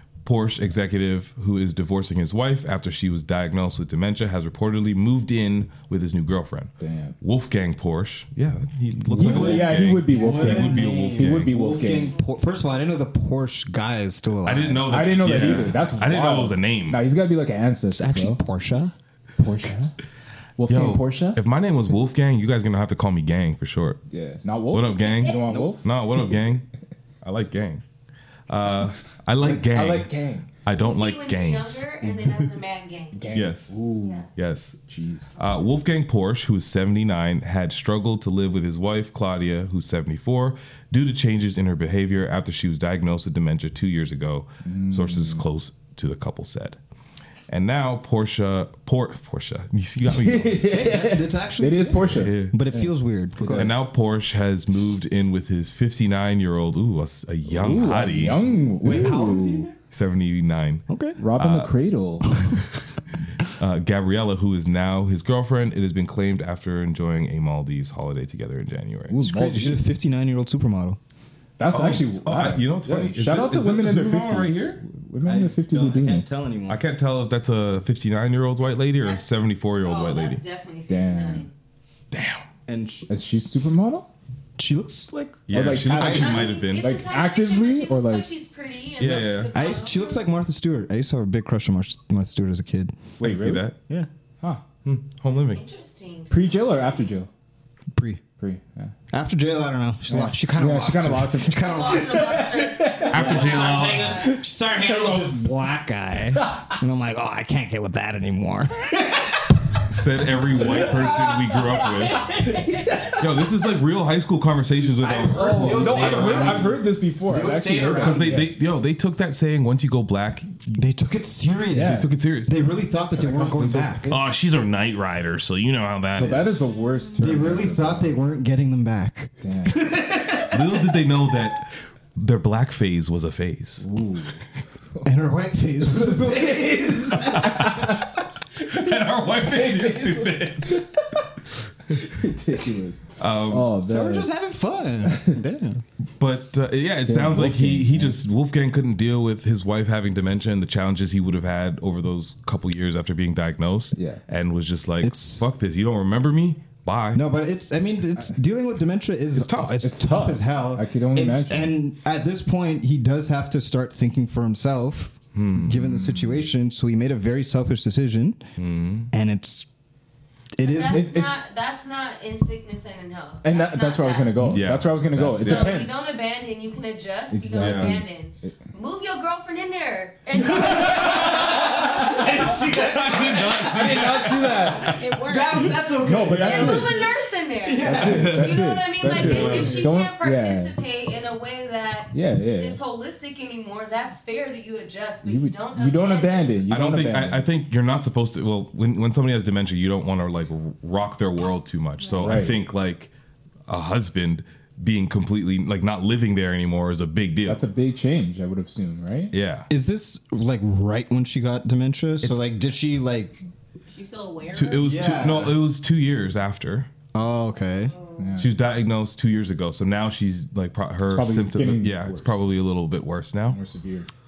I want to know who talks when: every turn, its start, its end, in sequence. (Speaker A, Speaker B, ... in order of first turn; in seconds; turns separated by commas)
Speaker A: 0.2-11.5, Speaker B: 6.8-7.2, Speaker C: 9.1-15.7, Speaker B: 9.1-12.2, Speaker A: 14.4-17.0, Speaker B: 14.8-18.4, Speaker C: 17.9-18.9, Speaker B: 19.4-19.9, Speaker B: 20.6-21.4, Speaker A: 20.7-24.0, Speaker B: 24.1-25.9, Speaker A: 24.7-26.6, Speaker C: 25.3-25.7, Speaker A: 27.2-27.8, Speaker A: 28.5-30.1, Speaker B: 29.4-30.5, Speaker A: 30.6-31.9, Speaker D: 30.7-33.2, Speaker B: 33.1-34.3, Speaker A: 33.3-33.7, Speaker D: 33.9-34.3, Speaker A: 34.3-34.8, Speaker B: 34.9-35.3, Speaker A: 35.4-46.8, Speaker B: 44.6-45.4, Speaker A: 47.5-50.7, Speaker B: 50.1-53.8, Speaker C: 50.7-53.8, Speaker A: 52.0-52.6, Speaker A: 53.4-58.5, Speaker B: 57.5-59.7, Speaker C: 58.8-59.7, Speaker A: 59.9-61.7, Speaker C: 60.9-61.2, Speaker B: 61.2-62.4, Speaker A: 63.6-69.1, Speaker B: 69.1-69.9, Speaker C: 69.1-71.0, Speaker B: 71.6-76.2, Speaker A: 71.7-74.8, Speaker C: 75.2-76.8, Speaker A: 76.7-80.4, Speaker D: 79.0-79.2, Speaker D: 79.8-81.5, Speaker B: 80.9-81.5, Speaker A: 82.1-82.4, Speaker C: 82.7-83.1, Speaker B: 83.1-84.1, Speaker C: 84.6-86.5, Speaker A: 85.5-87.0, Speaker B: 85.5-88.3, Speaker D: 86.0-90.2, Speaker A: 89.0-89.5, Speaker C: 89.5-93.1, Speaker B: 93.2-93.7, Speaker A: 93.2-93.8, Speaker A: 94.8-95.6, Speaker D: 95.5-96.3, Speaker B: 96.3-97.3, Speaker C: 97.9-98.2, Speaker B: 98.4-98.9, Speaker C: 99.1-102.5, Speaker B: 100.1-103.5, Speaker D: 101.6-104.4, Speaker A: 103.1-104.1, Speaker C: 103.1-109.2, Speaker B: 104.8-105.4, Speaker A: 109.9-112.4, Speaker B: 110.8-111.1, Speaker B: 112.6-113.1, Speaker A: 113.0-116.8, Speaker C: 115.0-118.5, Speaker B: 115.1-118.5, Speaker A: 117.9-120.8, Speaker C: 120.8-124.2, Speaker B: 121.7-122.1, Speaker A: 121.8-122.6, Speaker A: 123.4-126.7, Speaker B: 126.2-128.1, Speaker C: 127.2-130.6, Speaker B: 129.4-129.8, Speaker A: 130.5-133.9, Speaker B: 133.8-134.4, Speaker C: 135.0-137.3, Speaker B: 135.8-138.0, Speaker A: 137.3-138.0, Speaker A: 138.6-140.8, Speaker B: 139.4-141.2, Speaker B: 141.9-144.3, Speaker A: 143.2-143.7, Speaker C: 143.8-145.8, Speaker B: 145.1-145.4, Speaker A: 146.2-157.2, Speaker B: 147.1-148.2, Speaker B: 153.9-154.2, Speaker C: 155.0-155.4, Speaker C: 157.1-168.4, Speaker A: 159.3-159.8, Speaker B: 159.8-161.7, Speaker A: 165.3-166.0, Speaker A: 168.6-169.1, Speaker C: 169.1-169.7, Speaker C: 170.5-171.1, Speaker D: 170.6-174.4, Speaker B: 170.9-171.4, Speaker B: 173.4-176.0, Speaker A: 174.4-175.9, Speaker D: 175.4-181.6, Speaker B: 177.3-178.6, Speaker A: 177.6-178.0, Speaker A: 180.9-181.6, Speaker C: 181.5-183.2, Speaker B: 181.8-182.4, Speaker A: 182.5-185.1, Speaker B: 183.6-185.0, Speaker E: 184.8-185.8, Speaker C: 185.2-187.0, Speaker B: 185.9-187.0, Speaker A: 186.3-187.0, Speaker D: 186.3-196.6, Speaker C: 187.6-190.0, Speaker B: 187.8-190.7, Speaker A: 188.2-188.5, Speaker B: 192.1-192.8, Speaker B: 195.2-197.5, Speaker A: 196.7-203.1, Speaker B: 202.2-202.6, Speaker A: 203.7-207.6, Speaker B: 207.5-209.3, Speaker A: 209.3-209.7, Speaker C: 209.7-213.4, Speaker E: 213.9-215.0, Speaker A: 214.5-216.9, Speaker C: 214.8-215.6, Speaker C: 217.1-217.9, Speaker E: 217.9-218.4, Speaker B: 218.2-218.5, Speaker A: 218.4-223.6, Speaker B: 221.1-222.4, Speaker B: 223.5-224.1